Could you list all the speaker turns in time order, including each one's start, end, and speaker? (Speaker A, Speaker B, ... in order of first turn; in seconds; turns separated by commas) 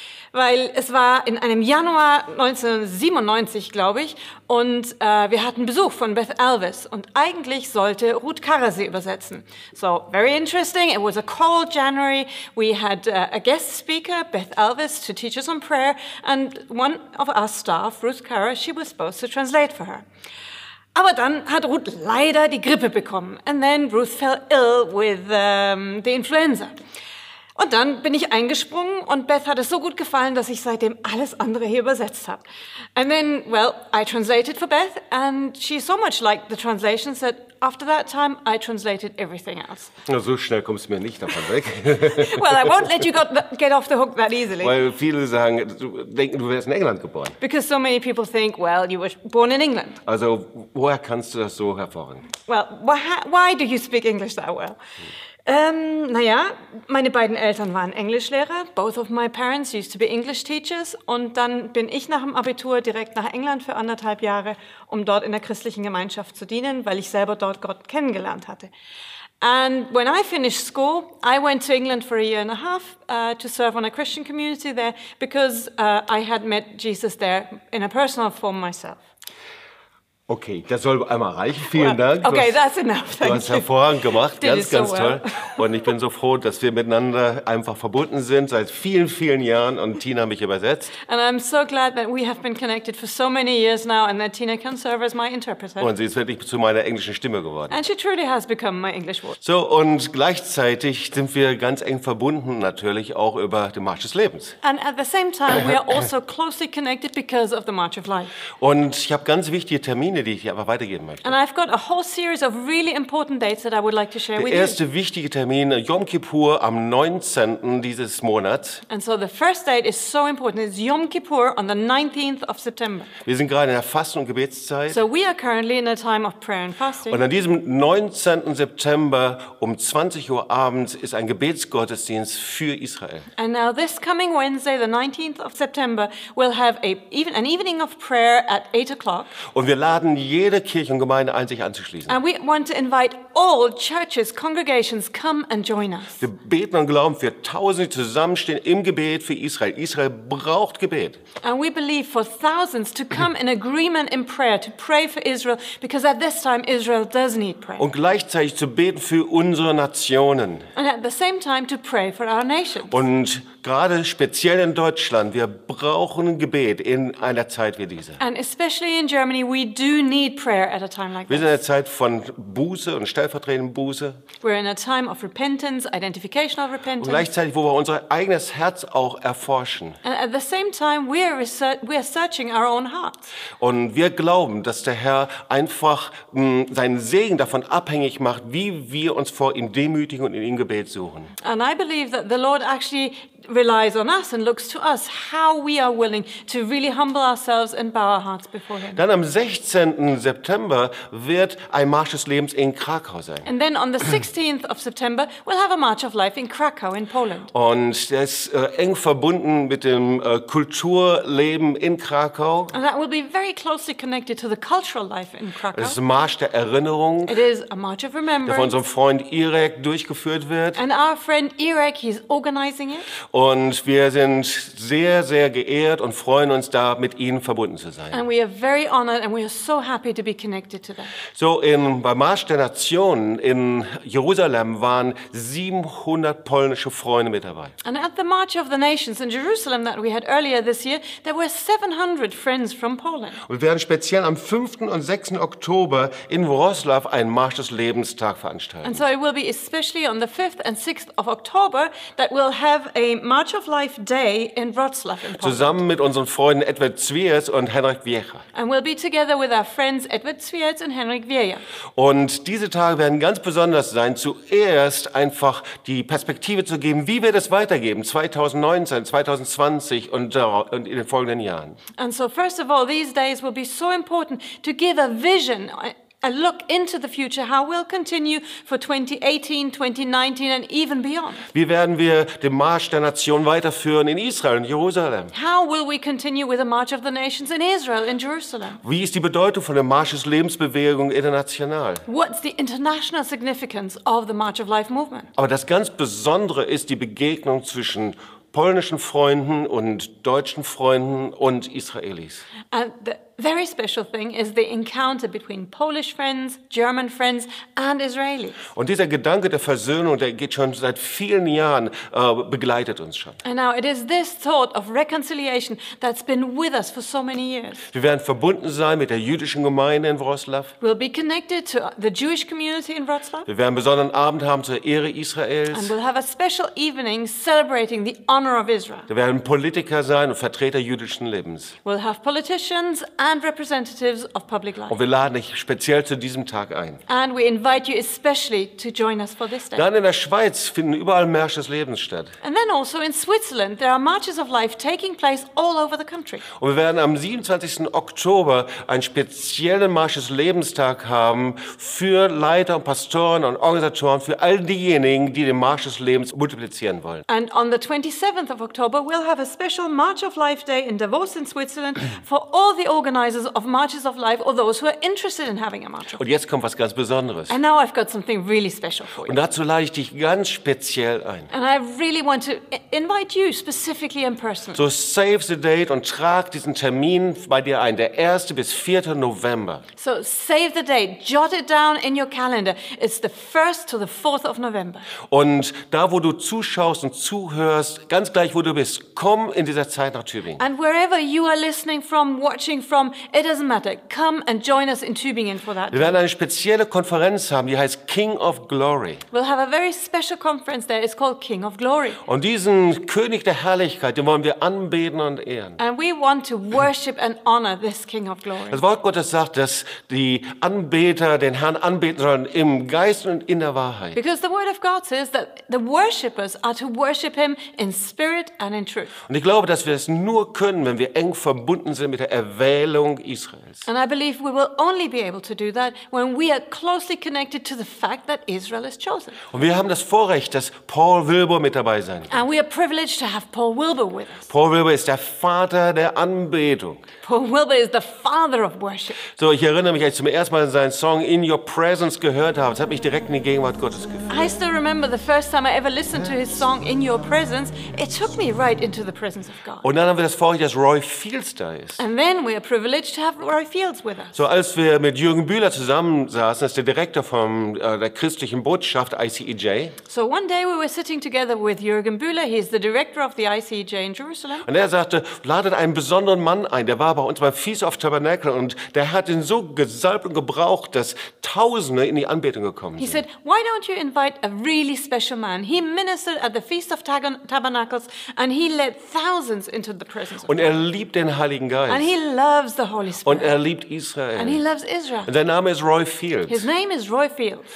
Speaker A: 0.3-20.1, Speaker A: 20.9-26.7, Speaker A: 27.6-39.9, Speaker B: 40.1-42.8, Speaker A: 42.0-44.8, Speaker B: 44.6-47.4, Speaker A: 47.4-50.0, Speaker B: 50.0-52.3, Speaker A: 52.5-54.8, Speaker A: 55.5-68.7, Speaker A: 69.4-79.0, Speaker B: 80.3-82.6, Speaker A: 81.7-83.7, Speaker B: 83.2-90.9, Speaker A: 84.3-85.6, Speaker A: 91.0-95.9, Speaker B: 95.8-97.8, Speaker A: 97.7-99.4, Speaker B: 99.4-104.6, Speaker A: 104.6-108.3, Speaker B: 108.6-111.3, Speaker A: 111.2-114.8, Speaker B: 114.4-118.8, Speaker A: 118.9-123.1, Speaker B: 123.2-125.0, Speaker A: 124.9-127.2, Speaker B: 127.1-133.3, Speaker A: 133.4-139.3, Speaker B: 139.5-142.2, Speaker A: 142.1-146.2, Speaker B: 146.2-151.2, Speaker A: 151.4-157.8, Speaker B: 157.8-160.7, Speaker A: 160.8-163.0, Speaker B: 162.9-168.2, Speaker A: 168.2-171.5, Speaker B: 171.3-174.2, Speaker A: 174.4-177.3, Speaker B: 177.0-180.0, Speaker A: 180.0-183.2, Speaker B: 183.6-191.3, Speaker A: 191.4-199.0, Speaker B: 198.9-203.5, Speaker A: 203.4-207.5, Speaker B: 207.5-212.8, Speaker A: 212.7-216.0, Speaker B: 215.7-217.3, Speaker A: 217.3-218.7, Speaker B: 218.4-220.8, Speaker A: 220.8-223.1, Speaker B: 223.3-228.2, Speaker A: 228.1-231.1, Speaker B: 231.3-237.7, Speaker A: 237.8-243.4, Speaker B: 243.5-249.1, Speaker A: 248.8-255.8, Speaker B: 255.3-258.4, Speaker A: 258.5-261.6, Speaker B: 262.0-271.8, Speaker A: 272.0-281.5, Speaker B: 281.5-285.3, Speaker A: 285.3-288.8, Speaker B: 288.8-292.1, Speaker A: 292.1-295.3, Speaker B: 295.4-302.4, Speaker A: 302.7-308.6, Speaker B: 308.7-313.4, Speaker A: 313.4-317.9, Speaker B: 317.9-320.7, Speaker A: 320.8-323.5, Speaker B: 323.5-325.9, Speaker A: 325.7-329.1, Speaker B: 329.1-331.8, Speaker A: 331.9-335.0, Speaker B: 334.9-337.0, Speaker A: 337.1-339.8, Speaker B: 339.7-342.3, Speaker A: 342.4-346.4, Speaker B: 346.6-357.2, Speaker A: 357.3-366.2, Speaker B: 366.2-367.6, Speaker A: 367.5-369.4, Speaker B: 369.2-371.5, Speaker A: 371.5-374.8, Speaker B: 374.8-379.8, Speaker A: 380.0-385.1, Speaker B: 385.3-390.6, Speaker A: 390.6-396.2, Speaker B: 395.9-399.2, Speaker A: 399.3-402.2, Speaker B: 402.2-405.8, Speaker A: 405.8-408.8, Speaker B: 408.7-414.2, Speaker A: 414.1-419.1, Speaker B: 419.3-423.9, Speaker A: 423.9-429.4, Speaker B: 429.5-432.4, Speaker A: 432.3-434.5, Speaker B: 434.5-437.0, Speaker A: 437.2-439.2, Speaker B: 439.3-444.3, Speaker A: 444.3-449.9, Speaker B: 449.8-452.0, Speaker A: 452.0-454.4, Speaker B: 454.3-459.9, Speaker A: 460.1-464.7, Speaker B: 464.6-473.2, Speaker A: 473.0-480.7, Speaker B: 480.5-482.1, Speaker A: 481.9-483.6, Speaker B: 483.2-484.6, Speaker A: 484.4-485.3, Speaker B: 485.3-486.6, Speaker A: 486.5-487.7